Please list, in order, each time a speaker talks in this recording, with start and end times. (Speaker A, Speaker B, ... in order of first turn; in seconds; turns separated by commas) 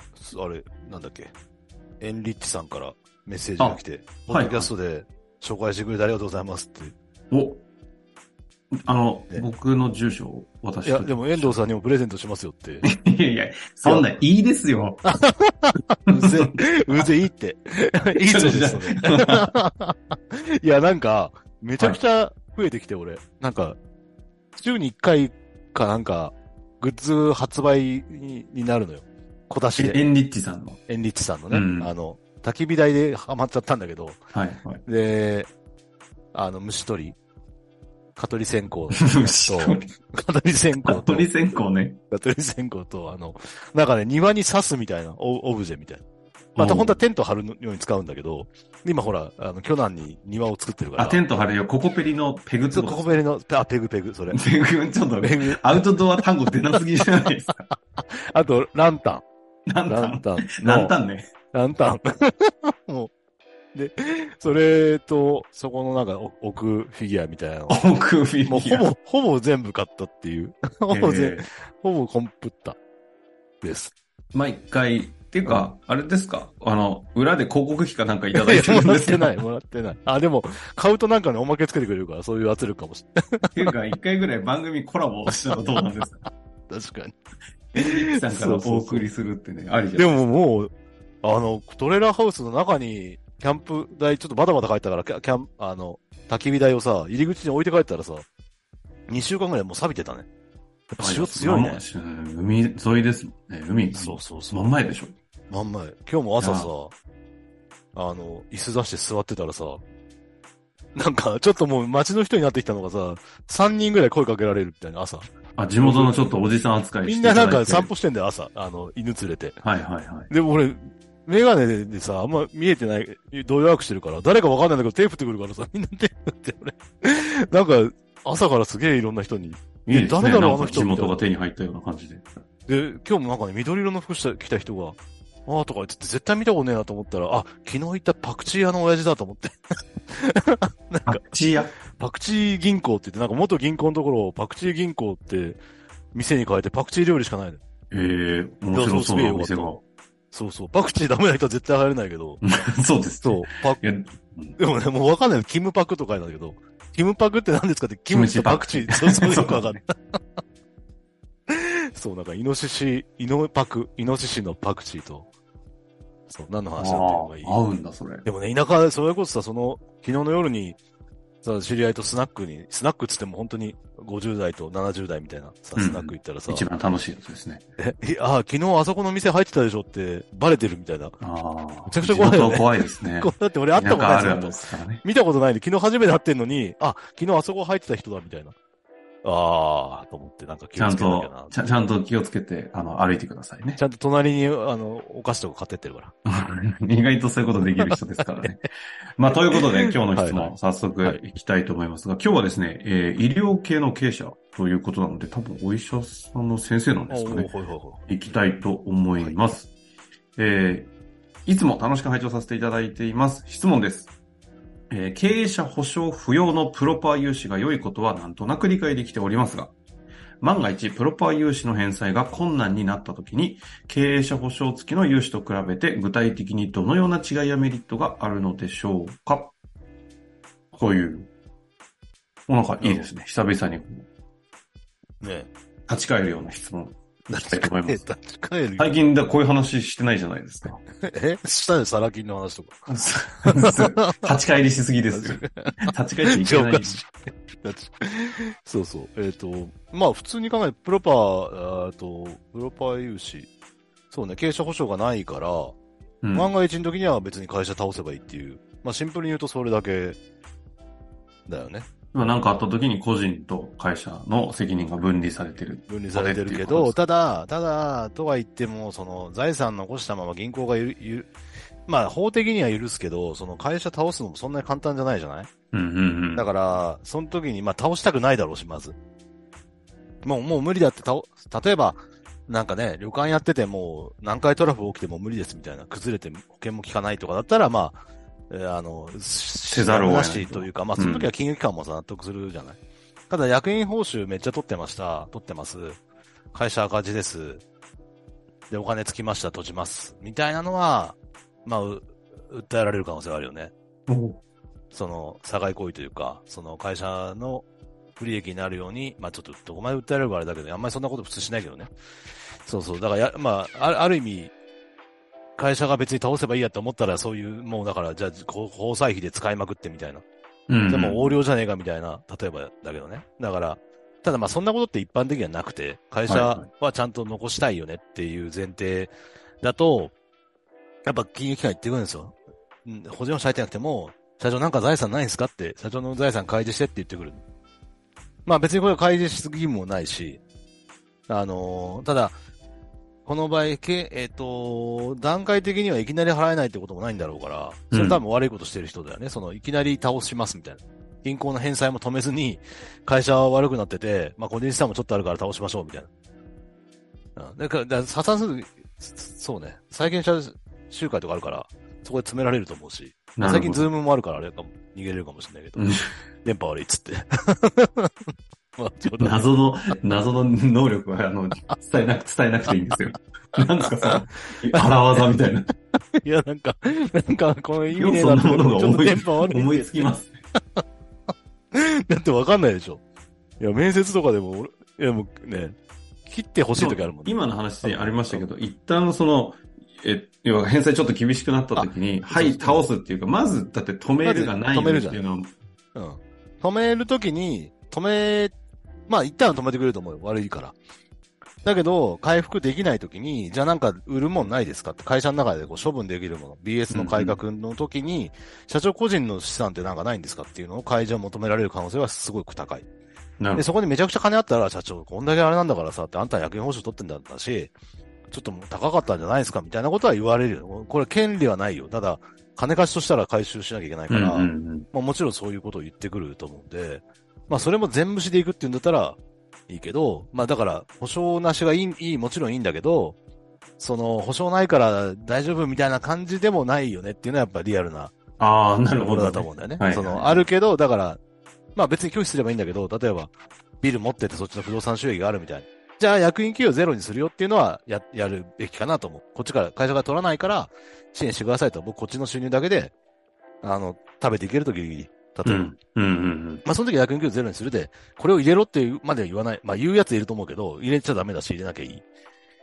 Speaker A: 0.1-1.3, Speaker A: 2.0-7.0, Speaker B: 3.6-4.7, Speaker B: 7.3-7.6, Speaker B: 8.8-11.6, Speaker A: 10.8-12.9, Speaker B: 12.8-15.0, Speaker A: 13.8-14.2, Speaker A: 15.0-23.8, Speaker B: 16.1-17.1, Speaker B: 18.2-19.5, Speaker A: 24.6-30.0, Speaker B: 29.8-30.8, Speaker A: 30.9-34.2, Speaker B: 31.5-31.9, Speaker B: 34.3-34.8, Speaker A: 34.9-35.5, Speaker A: 36.3-37.2, Speaker A: 38.1-46.0, Speaker B: 38.9-39.9, Speaker B: 40.8-42.0, Speaker B: 46.6-47.0, Speaker A: 46.6-51.2, Speaker B: 51.0-53.2, Speaker A: 52.7-54.4, Speaker B: 54.3-57.6, Speaker A: 55.2-56.2, Speaker A: 58.3-59.2, Speaker B: 59.7-61.3, Speaker A: 59.9-61.0, Speaker A: 61.5-63.1, Speaker A: 63.7-67.8, Speaker B: 67.7-68.9, Speaker A: 68.4-72.8, Speaker B: 70.9-71.5, Speaker A: 73.6-73.9, Speaker B: 74.3-79.3, Speaker A: 78.3-83.7, Speaker B: 83.5-86.2, Speaker A: 85.5-85.9, Speaker A: 86.7-87.2, Speaker B: 87.7-90.2, Speaker A: 87.8-89.1, Speaker A: 90.0-90.7, Speaker A: 91.2-98.3, Speaker A: 99.1-100.3, Speaker A: 100.9-101.8, Speaker B: 101.0-105.1, Speaker A: 103.9-104.8, Speaker A: 105.5-107.0, Speaker B: 106.4-106.7, Speaker A: 108.0-109.8, Speaker A: 111.0-115.3, Speaker B: 115.6-117.9, Speaker A: 115.8-116.4, Speaker A: 117.0-119.6, Speaker B: 119.6-120.3, Speaker A: 120.3-131.2, Speaker B: 129.9-132.3, Speaker A: 132.7-141.2, Speaker B: 141.1-141.7, Speaker A: 141.9-145.6, Speaker A: 146.1-147.6, Speaker B: 147.9-149.8, Speaker A: 148.7-149.8, Speaker A: 150.3-152.4, Speaker B: 152.4-154.6, Speaker A: 153.2-153.8, Speaker A: 154.6-160.2, Speaker B: 158.1-159.8, Speaker A: 161.5-165.3, Speaker A: 166.3-167.6, Speaker B: 166.8-168.2, Speaker A: 168.2-170.8, Speaker A: 171.4-176.7, Speaker B: 175.8-177.6, Speaker A: 177.8-181.2, Speaker B: 181.2-185.0, Speaker A: 181.9-188.6, Speaker A: 189.2-191.6, Speaker B: 190.8-193.8, Speaker A: 193.8-196.1, Speaker B: 196.3-207.5, Speaker A: 197.8-198.5, Speaker A: 199.5-201.2, Speaker A: 207.1-208.4, Speaker B: 208.1-209.7, Speaker B: 210.4-210.9, Speaker B: 211.5-214.1, Speaker B: 214.9-219.8, Speaker B: 220.4-229.5, Speaker B: 230.7-231.3, Speaker B: 232.5-234.1, Speaker A: 232.8-233.1, Speaker A: 235.2-235.5, Speaker B: 235.9-238.0, Speaker A: 237.3-238.9, Speaker B: 238.8-240.8, Speaker A: 240.9-242.9, Speaker B: 242.9-247.0, Speaker A: 243.5-244.4, Speaker A: 245.1-253.5, Speaker A: 254.1-255.8, Speaker B: 256.2-256.5, Speaker A: 256.3-260.2, Speaker A: 261.5-261.9, Speaker B: 262.1-267.0, Speaker A: 265.8-271.3, Speaker A: 271.9-275.5, Speaker B: 275.7-276.5, Speaker A: 276.4-279.0, Speaker A: 280.2-292.8, Speaker B: 289.7-291.3, Speaker A: 293.3-296.0, Speaker A: 296.5-297.6, Speaker A: 298.7-303.7, Speaker B: 304.1-304.4, Speaker A: 304.9-307.7, Speaker A: 308.2-311.9, Speaker A: 312.6-314.5, Speaker A: 315.6-320.2, Speaker B: 320.7-321.3, Speaker A: 320.9-330.1, Speaker B: 326.3-326.7, Speaker A: 331.0-337.4, Speaker A: 338.4-340.4, Speaker A: 341.3-342.4, Speaker A: 343.2-356.1, Speaker B: 347.9-348.2, Speaker A: 357.4-369.4, Speaker B: 363.4-363.9, Speaker B: 365.8-366.1, Speaker B: 369.2-375.7, Speaker A: 373.6-375.4, Speaker A: 376.1-380.2, Speaker B: 377.9-380.4, Speaker A: 381.7-383.0, Speaker A: 383.6-388.5, Speaker B: 386.8-395.5, Speaker A: 391.8-392.9, Speaker A: 394.2-395.2, Speaker A: 395.9-398.6, Speaker A: 399.1-400.8, Speaker A: 401.6-412.9, Speaker B: 406.9-407.4, Speaker A: 413.6-417.7, Speaker A: 418.3-433.2, Speaker B: 424.1-424.9, Speaker A: 433.8-438.1, Speaker B: 438.4-440.5, Speaker A: 438.9-441.2, Speaker A: 441.8-452.9, Speaker A: 453.6-455.7, Speaker B: 455.4-456.6, Speaker A: 456.6-462.1